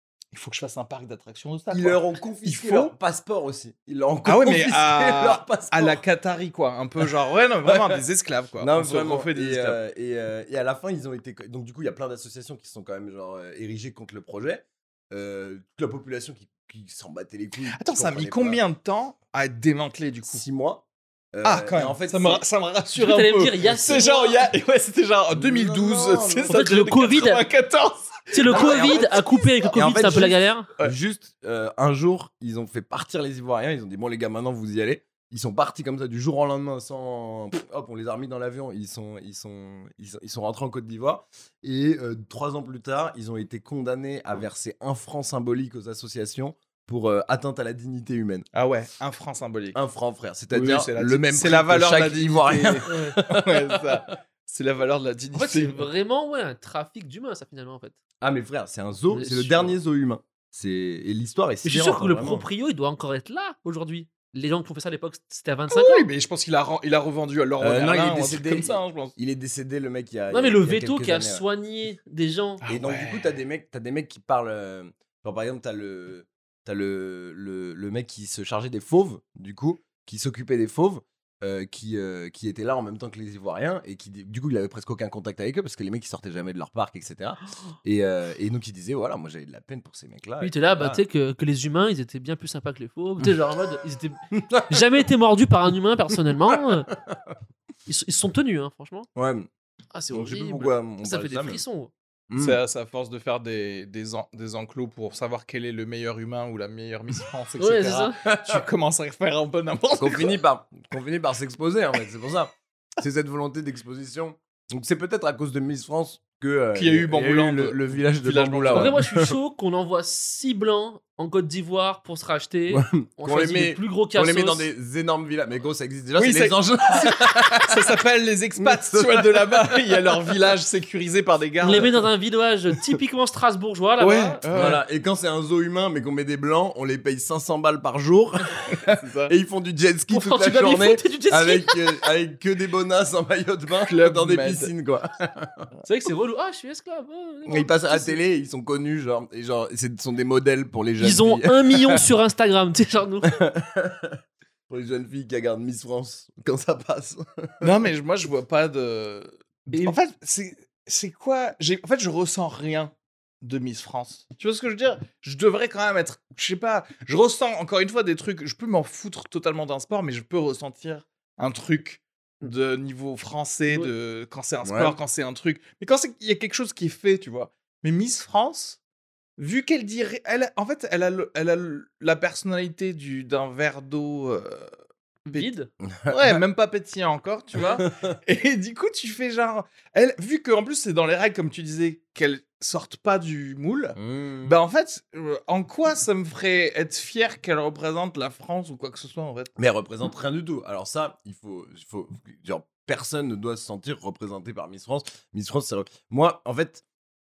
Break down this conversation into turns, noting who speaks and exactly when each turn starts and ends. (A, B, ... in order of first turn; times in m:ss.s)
0:00.3-0:02.9 A
0:01.7-0:06.0 B
0:04.2-0:09.8 A
0:07.6-0:08.0 B
0:08.6-0:18.6 B
0:17.7-0:20.4 A
0:20.3-0:22.4 B
0:21.4-0:28.8 A
0:23.0-0:24.5 C
0:25.3-0:26.6 B
0:26.5-0:27.4 C
0:28.3-0:30.7 C
0:28.5-0:48.4 B
0:48.5-0:49.8 A
0:49.7-0:54.0 B
0:50.5-0:55.9 A
0:52.8-0:53.2 C
0:55.3-0:58.0 C
0:58.2-1:02.4 B
0:59.1-0:59.7 C
1:01.6-1:06.1 C
1:05.7-1:09.1 A
1:07.6-1:11.4 B
1:10.3-1:12.6 C
1:12.6-1:13.2 A
1:12.7-1:31.0 B
1:30.4-1:36.9 C
1:34.3-1:34.8 B
1:36.9-1:37.3 B
1:37.9-1:39.1 C
1:39.2-1:39.5 B
1:39.9-1:41.9 C
1:40.1-1:41.6 B
1:42.3-1:42.6 B
1:42.4-1:50.4 A
1:47.6-1:48.2 C
1:48.2-1:48.6 B
1:50.0-1:59.4 B
1:56.7-1:59.0 A
1:58.7-2:04.7 C
2:02.7-2:07.9 B
2:06.2-2:12.0 A
2:08.6-2:10.3 B
2:11.6-2:14.4 C
2:14.0-2:14.8 A
2:14.5-2:25.7 B
2:18.8-2:19.3 A
2:20.1-2:22.1 C
2:23.9-2:24.7 A
2:25.8-2:28.2 C
2:27.4-2:32.0 B
2:31.0-2:33.4 C
2:33.3-2:37.7 B
2:37.6-2:58.8 A
2:54.6-2:55.0 B
2:59.4-3:04.7 A
3:05.3-3:05.7 C
3:05.9-3:06.4 B
3:06.1-3:19.5 A
3:14.0-3:14.6 B
3:19.6-3:26.8 B